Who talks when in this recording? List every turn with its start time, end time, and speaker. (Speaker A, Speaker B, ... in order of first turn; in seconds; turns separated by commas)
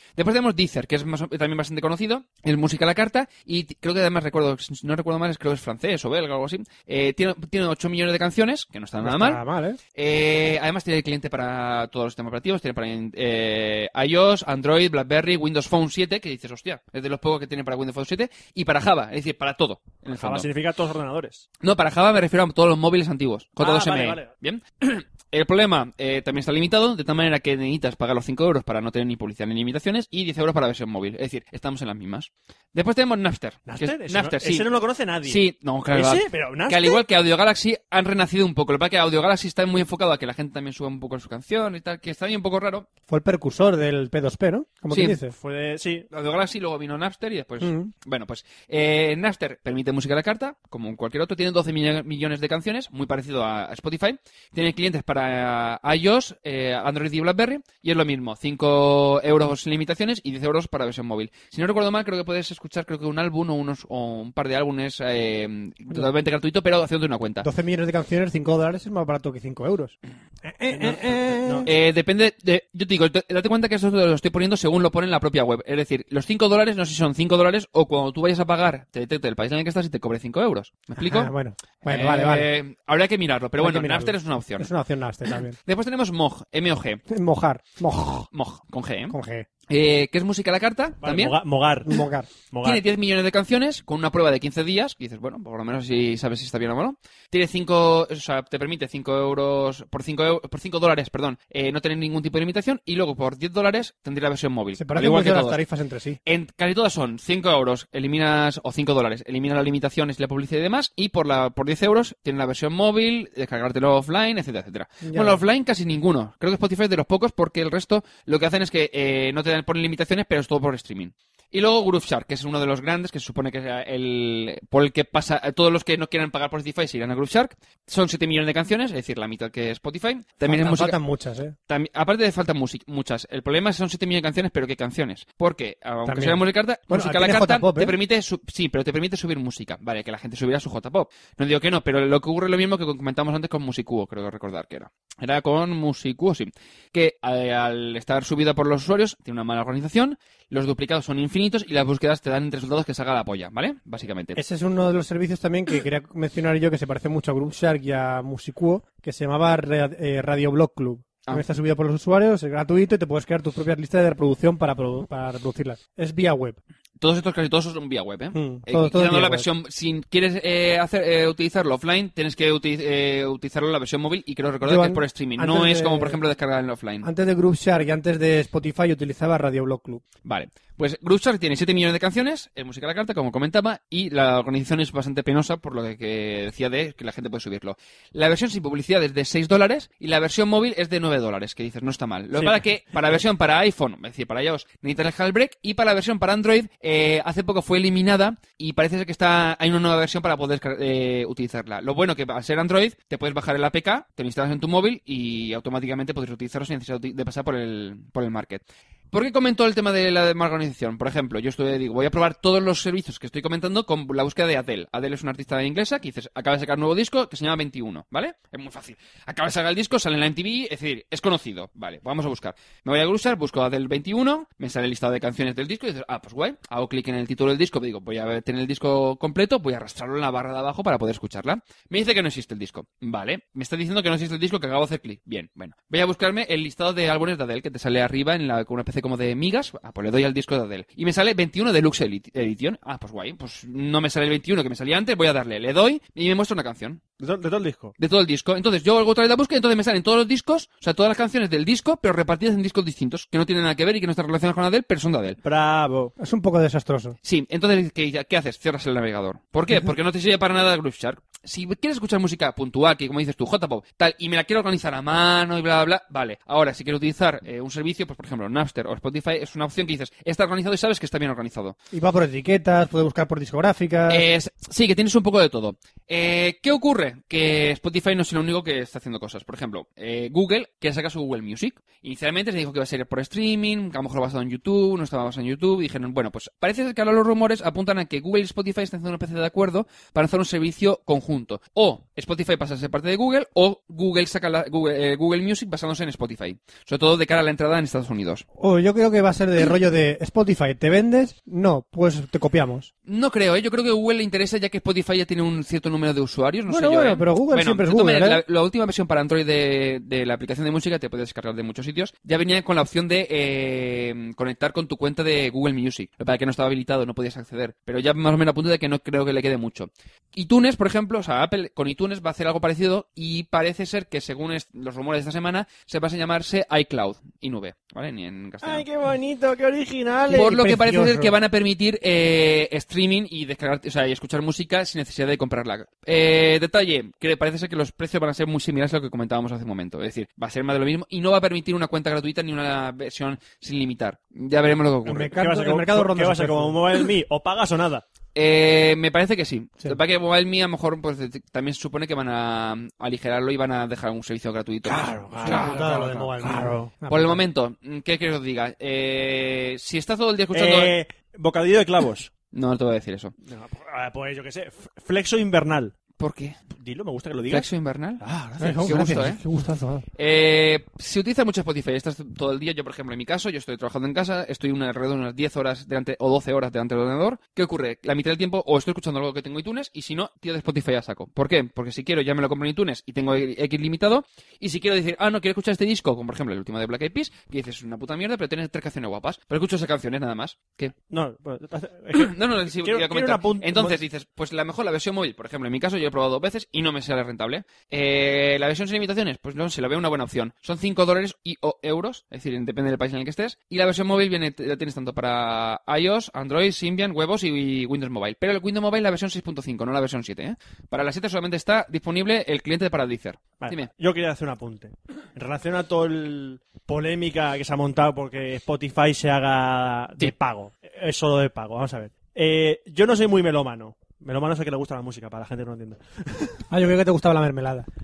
Speaker A: 0.2-9.4, Speaker B: 9.0-9.8, Speaker A: 9.9-20.5, Speaker C: 20.1-21.5, Speaker A: 21.6-34.7, Speaker C: 23.6-24.3, Speaker C: 33.7-37.0, Speaker A: 35.2-42.9, Speaker B: 43.1-45.4, Speaker A: 44.9-45.2, Speaker C: 45.3-46.1, Speaker A: 46.1-67.5, Speaker B: 47.6-47.9, Speaker B: 67.4-71.7, Speaker C: 70.7-71.7, Speaker A: 71.7-81.3, Speaker B: 81.0-82.5, Speaker A: 81.9-84.7, Speaker B: 83.6-85.6, Speaker A: 85.7-87.0, Speaker B: 87.1-88.3, Speaker A: 88.3-89.2, Speaker B: 89.1-89.5, Speaker A: 89.7-91.4, Speaker C: 91.0-91.9, Speaker B: 91.9-92.3, Speaker C: 92.5-92.8, Speaker A: 92.6-105.6, Speaker B: 104.8-106.2, Speaker A: 106.3-131.0, Speaker B: 115.0-115.4, Speaker B: 130.4-131.6, Speaker A: 131.7-154.4, Speaker B: 136.1-138.0, Speaker B: 154.3-166.6, Speaker A: 167.0-177.1, Speaker B: 168.3-169.5, Speaker B: 174.6-176.2, Speaker B: 177.0-180.0, Speaker A: 180.2-247.0, Speaker C: 192.3-192.6, Speaker C: 247.2-247.9, Speaker A: 248.0-255.4, Speaker C: 255.4-256.1, Speaker B: 256.2-257.2, Speaker A: 257.2-271.8, Speaker B: 271.9-274.3, Speaker A: 274.1-298.4, Speaker B: 298.6-302.9, Speaker A: 303.1-328.9, Speaker B: 306.7-308.4, Speaker C: 328.6-330.5, Speaker B: 330.3-331.4, Speaker A: 330.3-345.4, Speaker B: 345.1-346.8, Speaker C: 345.2-348.0, Speaker A: 348.4-356.1, Speaker C: 354.9-356.9, Speaker B: 355.4-357.4, Speaker A: 357.1-360.9, Speaker C: 360.5-362.3, Speaker A: 362.5-363.3, Speaker C: 363.4-365.9, Speaker A: 366.2-366.6, Speaker C: 366.7-367.7, Speaker A: 367.5-369.4, Speaker C: 368.2-369.2, Speaker B: 368.6-370.1, Speaker A: 370.2-390.9, Speaker C: 391.1-394.0, Speaker A: 392.1-413.9, Speaker C: 413.6-426.6, Speaker B: 426.7-427.9